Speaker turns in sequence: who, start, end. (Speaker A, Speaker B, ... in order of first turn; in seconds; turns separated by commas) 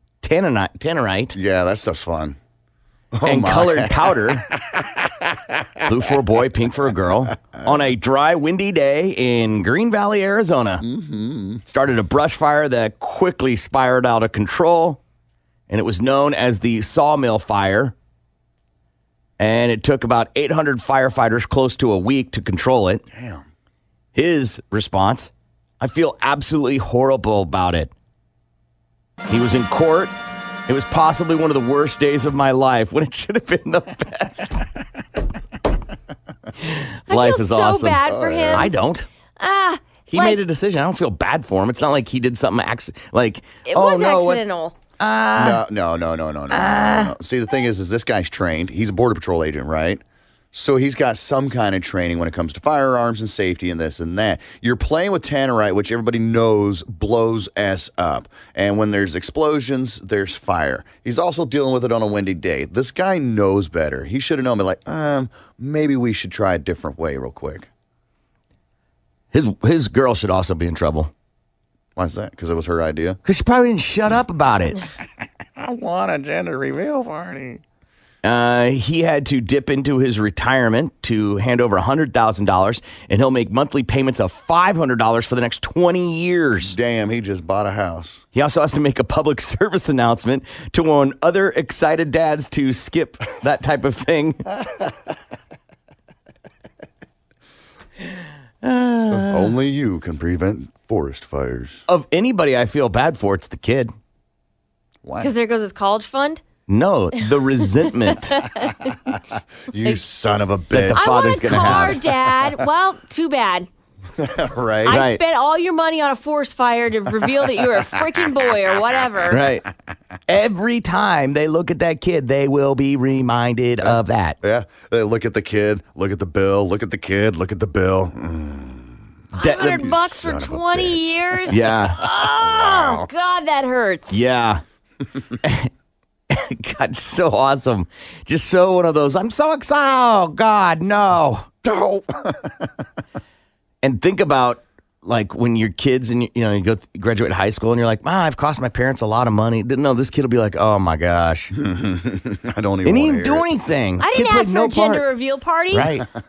Speaker A: 0.2-1.4, Speaker B: 1.3-2.4, Speaker B: 3.1-4.8, Speaker A: 3.2-4.5, Speaker A: 5.8-10.8, Speaker B: 10.8-11.6, Speaker A: 11.7-15.0, Speaker A: 15.7-17.9, Speaker A: 19.4-23.0, Speaker B: 23.1-23.4, Speaker A: 24.1-27.9, Speaker A: 29.3-30.1, Speaker A: 30.7-34.6, Speaker A: 36.6-39.1, Speaker C: 37.1-38.7, Speaker B: 38.0-38.7, Speaker C: 39.4-40.4, Speaker A: 40.1-44.4, Speaker C: 43.6-44.8, Speaker A: 45.0-45.6, Speaker B: 45.4-50.0, Speaker A: 46.5-47.1, Speaker B: 50.5-67.7, Speaker A: 69.3-71.1, Speaker B: 72.0-73.2, Speaker A: 73.2-74.8, Speaker B: 75.5-77.6, Speaker A: 78.2-86.8, Speaker B: 86.6-88.2, Speaker A: 88.3-94.4, Speaker A: 98.6-99.5, Speaker B: 99.1-101.8, Speaker A: 101.9-103.9, Speaker B: 105.0-105.3, Speaker C: 105.2-106.4, Speaker A: 106.7-108.4, Speaker C: 108.3-108.8, Speaker B: 109.7-112.0, Speaker A: 110.7-112.0, Speaker C: 111.0-113.7, Speaker B: 114.2-115.0, Speaker C: 114.8-119.4, Speaker A: 114.9-115.2, Speaker A: 119.3-119.7, Speaker A: 120.3-124.4, Speaker B: 123.8-131.5, Speaker C: 129.3-134.2, Speaker A: 129.4-129.8, Speaker A: 131.5-132.0, Speaker B: 132.2-133.1, Speaker A: 134.1-134.6, Speaker A: 135.4-135.7, Speaker A: 136.3-141.5, Speaker B: 141.6-142.8, Speaker A: 143.8-151.5, Speaker B: 151.5-153.5, Speaker A: 152.8-155.0, Speaker C: 154.0-155.9, Speaker A: 155.7-156.1